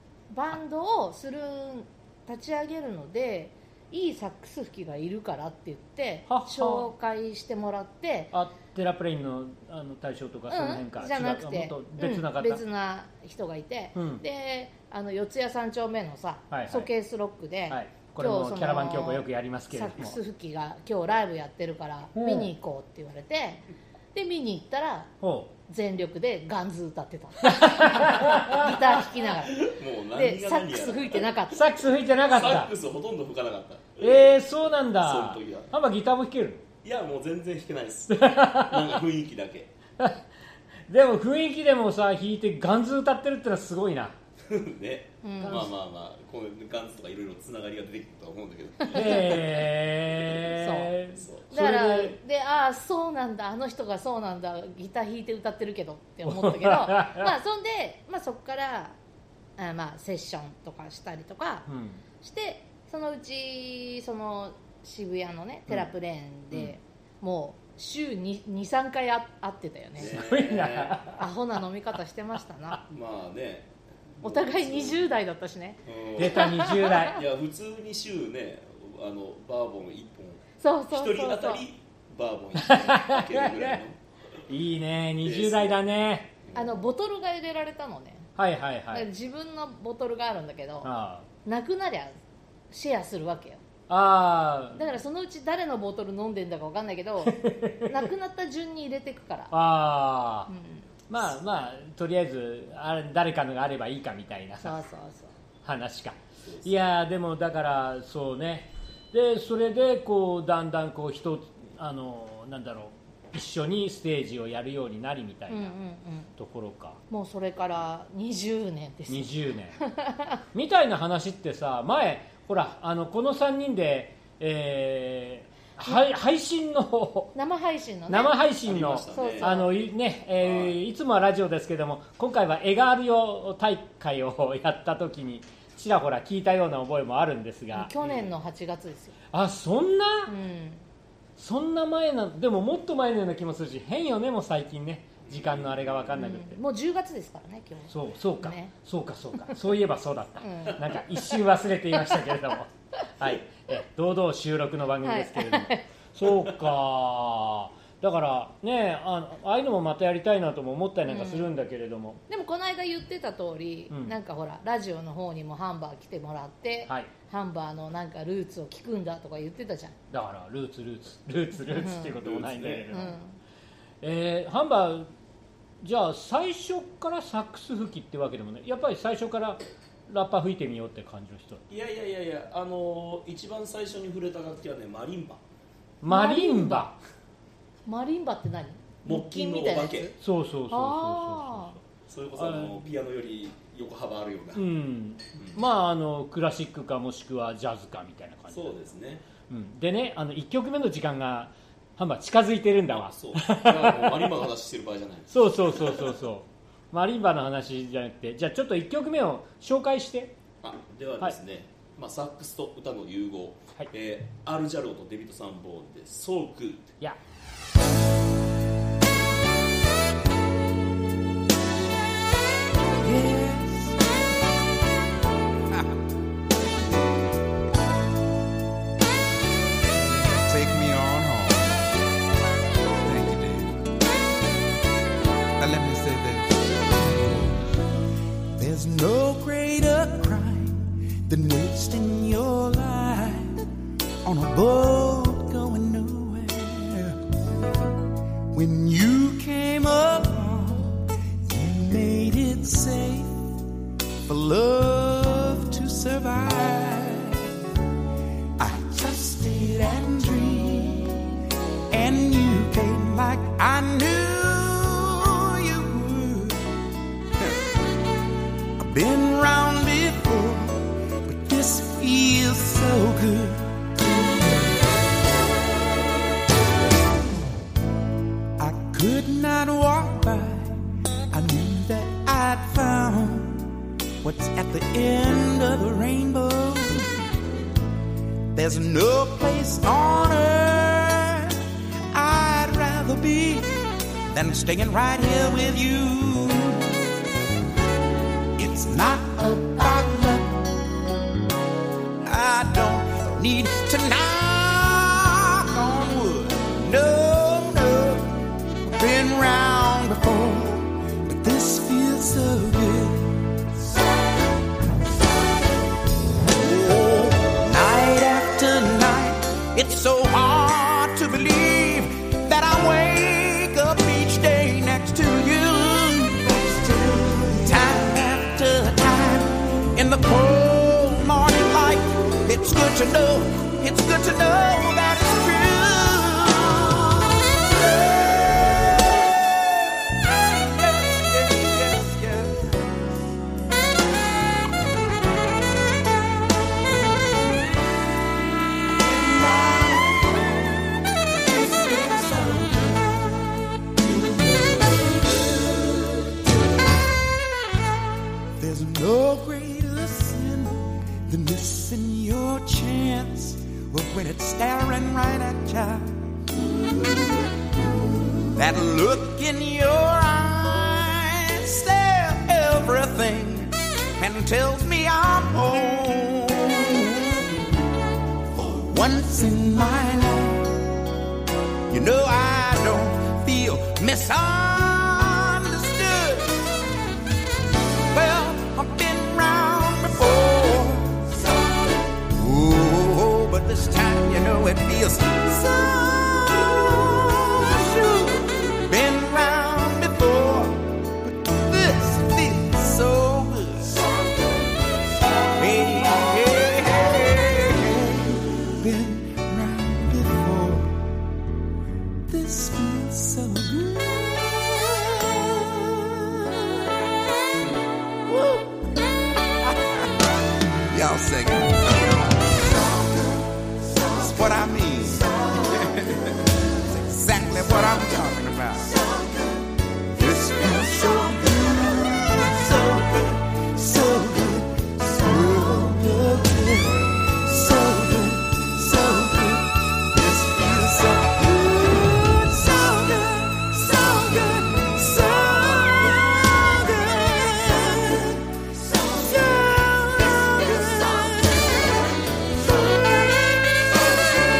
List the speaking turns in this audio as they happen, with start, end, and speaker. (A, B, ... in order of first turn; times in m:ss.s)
0:00.3-0:08.3 A
0:06.3-0:06.9 B
0:08.3-0:12.6 B
0:10.5-0:25.1 A
0:14.0-0:14.2 B
0:16.5-0:16.9 B
0:17.7-0:20.2 B
0:22.2-0:22.5 B
0:25.2-0:25.5 B
0:25.7-0:31.7 A
0:27.4-0:28.8 B
0:29.2-0:31.3 C
0:31.5-0:32.7 B
0:32.2-0:35.7 C
0:34.0-0:36.6 B
0:36.8-0:39.7 C
0:38.1-0:39.0 B
0:40.9-0:44.2 B
0:44.5-0:50.5 C
0:45.2-0:45.7 A
0:48.8-0:49.4 A
0:48.9-0:52.2 B
0:50.5-0:51.0 A
0:51.2-0:51.5 C
0:51.5-0:59.0 A
0:56.3-0:57.3 B
0:59.6-1:01.7 A
1:01.7-1:02.0 B
1:02.2-1:10.2 A
1:06.5-1:06.8 B
1:10.0-1:11.0 C
1:10.0-1:11.2 B
1:11.1-1:12.8 A
1:12.9-1:15.1 C
1:14.2-1:17.1 A
1:15.8-1:24.0 C
1:16.2-1:17.2 B
1:20.6-1:21.6 A
1:22.6-1:23.8 B
1:24.5-1:26.3 B
1:25.2-1:25.8 C
1:26.4-1:26.8 C
1:26.5-1:28.3 A
1:28.4-1:29.1 B
1:28.9-1:30.9 A
1:30.8-1:31.3 B
1:31.4-1:32.2 A
1:32.7-1:33.6 A
1:33.9-1:34.9 B
1:34.7-1:37.4 A
1:37.2-1:38.1 B
1:37.9-1:39.5 A
1:39.5-1:40.5 B
1:40.5-1:40.9 A
1:41.1-1:44.8 B
1:44.6-1:45.3 A
1:45.6-1:55.8 B
1:46.4-1:46.8 C
1:55.5-1:56.3 A
1:56.4-1:57.0 B
1:57.1-2:00.4 A
1:59.1-1:59.8 B
2:00.5-2:07.4 B
2:07.4-2:08.4 A
2:08.1-2:17.9 B
2:08.6-2:09.7 C
2:09.1-2:09.8 A
2:10.4-2:10.8 C
2:17.7-2:19.2 A
2:18.0-2:18.3 C
2:19.3-2:20.3 B
2:20.3-2:20.8 A
2:21.4-2:26.6 B
2:25.3-2:26.2 C
2:26.2-2:28.7 A
2:27.9-2:42.2 B
2:30.4-2:31.3 A
2:35.0-2:35.9 A
2:41.1-2:41.5 A
2:42.3-2:50.0 A
2:43.9-2:44.2 B
2:50.1-2:53.2 B
2:51.6-2:52.2 A
2:52.1-2:52.9 C
2:52.9-2:53.4 A
2:54.0-2:55.1 B
2:55.8-3:01.6 B
3:01.7-3:05.4 C
3:06.0-3:07.0 B
3:06.1-3:06.9 A
3:07.9-3:10.2 A
3:09.0-3:10.1 C
3:10.2-3:11.8 B
3:10.7-3:11.8 A
3:12.1-3:14.6 C
3:12.4-3:12.8 B
3:14.6-3:19.0 B
3:15.4-3:15.6 C
3:18.5-3:19.2 C
3:19.5-3:24.5 B
3:22.9-3:26.2 C
3:25.3-3:30.4 B
3:30.6-3:37.0 C
3:43.0-3:44.1 D
3:45.7-3:46.0 D
3:50.3-3:51.9 D
3:53.0-3:53.9 D
3:55.6-3:57.5 D
3:58.6-4:03.7 D
4:04.2-4:07.2 D
4:08.5-4:13.4 D
4:14.3-4:17.5 D
4:18.6-4:21.4 D
4:21.9-4:26.8 D
4:28.8-4:34.3 D
4:38.6-4:47.3 D
4:48.5-4:51.6 D
4:52.1-4:57.0 D
4:58.6-5:00.7 D
5:02.2-5:13.4 D
5:16.5-5:42.8 D
5:48.9-5:56.4 D
5:58.6-6:07.5 D
6:08.5-6:17.6 D
6:18.6-6:20.8 D
6:21.9-6:26.6 D
6:28.1-6:44.1 D
6:45.6-6:51.1 D
6:52.3-6:56.9 D
6:58.3-6:58.7 D
6:59.6-7:00.1 D
7:00.9-7:03.5 D
7:04.0-7:09.0 D
7:10.1-7:31.9 D
7:32.8-7:33.6 D